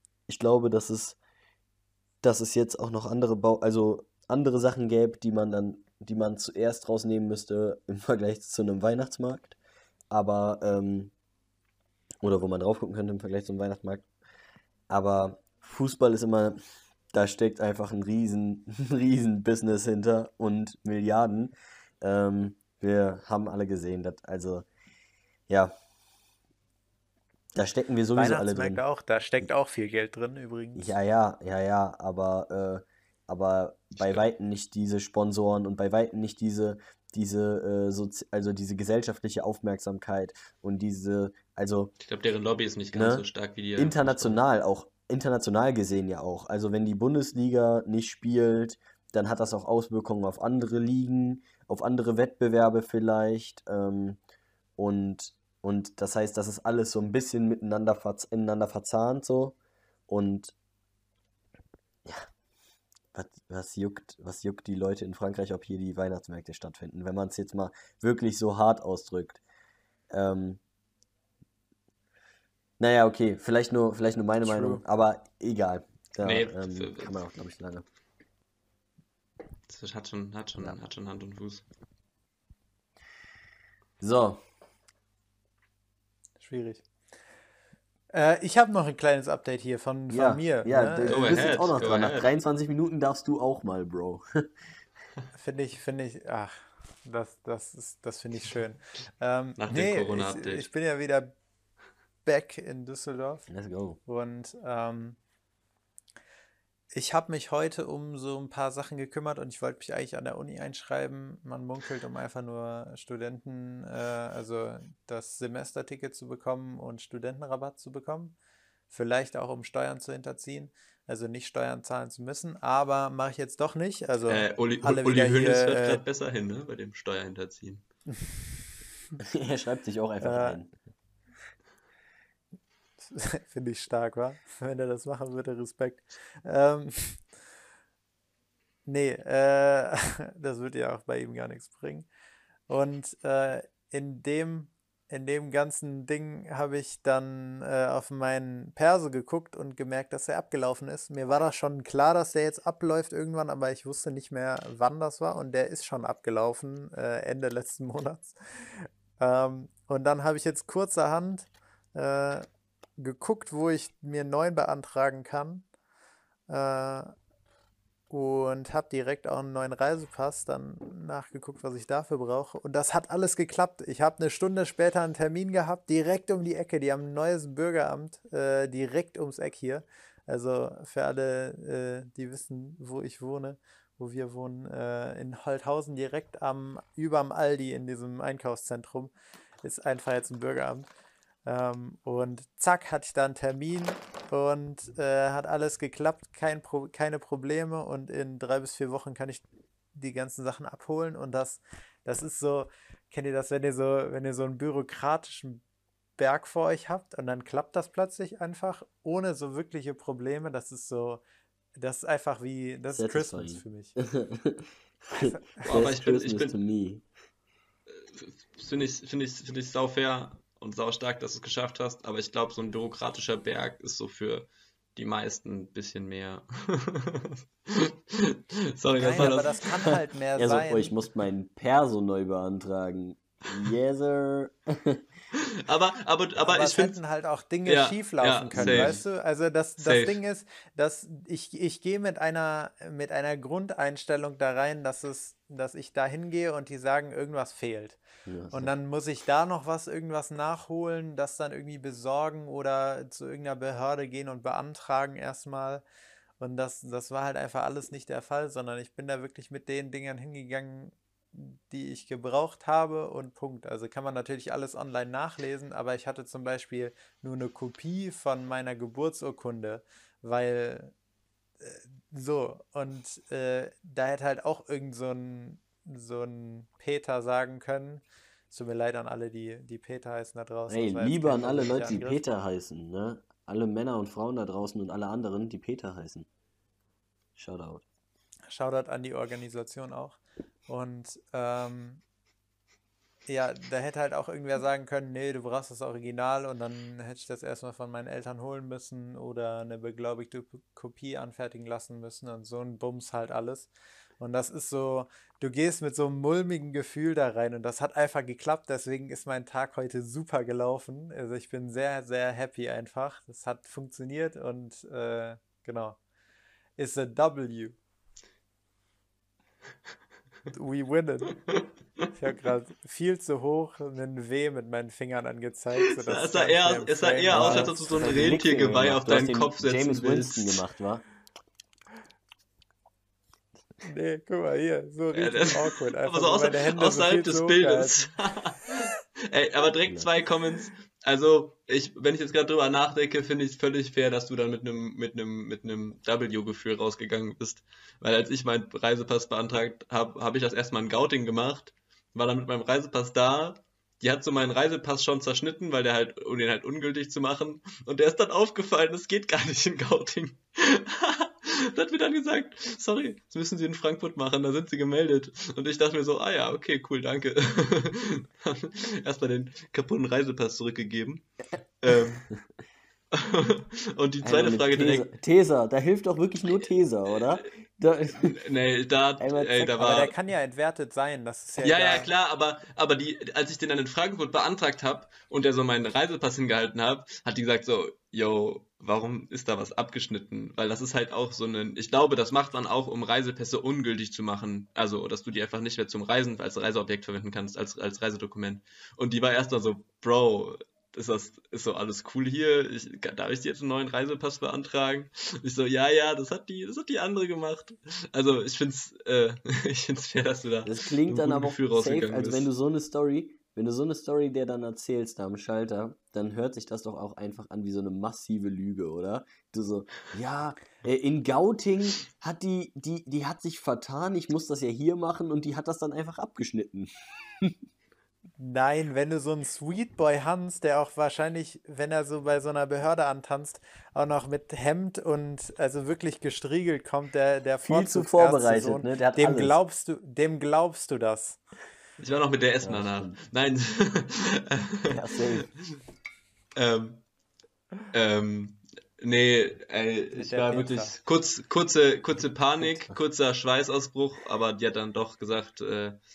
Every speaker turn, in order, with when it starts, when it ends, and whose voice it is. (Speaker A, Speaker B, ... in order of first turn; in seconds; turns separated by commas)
Speaker A: 0.3-1.2, Speaker A: 2.2-9.6, Speaker A: 10.1-11.1, Speaker A: 12.2-14.1, Speaker A: 14.9-16.6, Speaker A: 17.1-24.7, Speaker A: 27.6-28.8, Speaker B: 28.1-31.0, Speaker A: 30.8-41.9, Speaker C: 34.0-34.2, Speaker C: 42.0-44.4, Speaker A: 42.9-43.2, Speaker A: 43.8-54.2, Speaker A: 54.8-59.6, Speaker A: 60.1-60.5, Speaker A: 63.1-69.4, Speaker A: 70.1-70.6, Speaker A: 72.8-77.8, Speaker B: 74.4-74.8, Speaker C: 76.2-77.1, Speaker C: 79.7-81.7, Speaker A: 84.0-84.4, Speaker B: 86.4-86.8, Speaker B: 88.1-91.7, Speaker A: 90.1-94.5, Speaker C: 91.0-92.3, Speaker B: 95.3-101.3, Speaker C: 99.6-100.7, Speaker B: 102.2-103.5, Speaker A: 103.5-104.0, Speaker B: 104.1-105.2, Speaker B: 106.9-118.4, Speaker B: 118.9-126.0, Speaker C: 124.3-127.8, Speaker A: 129.2-130.8, Speaker B: 130.2-130.6, Speaker B: 133.1-137.2, Speaker B: 138.9-142.1, Speaker B: 142.7-162.5, Speaker B: 163.0-165.7, Speaker B: 166.5-167.1, Speaker B: 168.1-189.1, Speaker B: 189.6-190.9, Speaker B: 191.5-199.4, Speaker B: 199.9-205.6, Speaker B: 206.2-211.2, Speaker B: 211.8-214.0, Speaker A: 213.0-217.0, Speaker B: 215.2-215.6, Speaker C: 215.6-216.6, Speaker C: 217.9-229.9, Speaker B: 228.9-231.0, Speaker A: 230.4-235.0, Speaker C: 235.4-237.0, Speaker B: 236.4-248.0, Speaker C: 237.7-239.0, Speaker A: 238.5-239.0, Speaker C: 239.8-240.2, Speaker A: 248.3-248.7, Speaker B: 248.5-255.8, Speaker B: 256.4-270.9, Speaker B: 271.6-282.2, Speaker A: 280.7-286.3, Speaker A: 287.4-287.8, Speaker B: 288.5-292.0, Speaker B: 293.3-303.7, Speaker B: 304.2-316.0, Speaker B: 316.8-317.8, Speaker B: 320.5-321.4, Speaker B: 322.1-328.4, Speaker C: 325.9-330.6, Speaker A: 327.3-331.0, Speaker B: 333.9-338.1, Speaker C: 335.1-371.3, Speaker C: 371.8-372.3, Speaker C: 373.1-375.1, Speaker A: 374.2-378.4, Speaker C: 377.1-377.4, Speaker C: 378.2-380.1, Speaker A: 379.2-379.9, Speaker B: 379.7-382.1, Speaker C: 381.6-412.5, Speaker A: 410.6-427.6, Speaker B: 428.4-441.4, Speaker A: 437.6-439.6, Speaker C: 442.0-445.4, Speaker A: 442.6-443.2, Speaker A: 444.9-445.5, Speaker C: 446.6-447.1, Speaker C: 447.9-456.0, Speaker B: 450.1-451.0, Speaker A: 452.6-452.9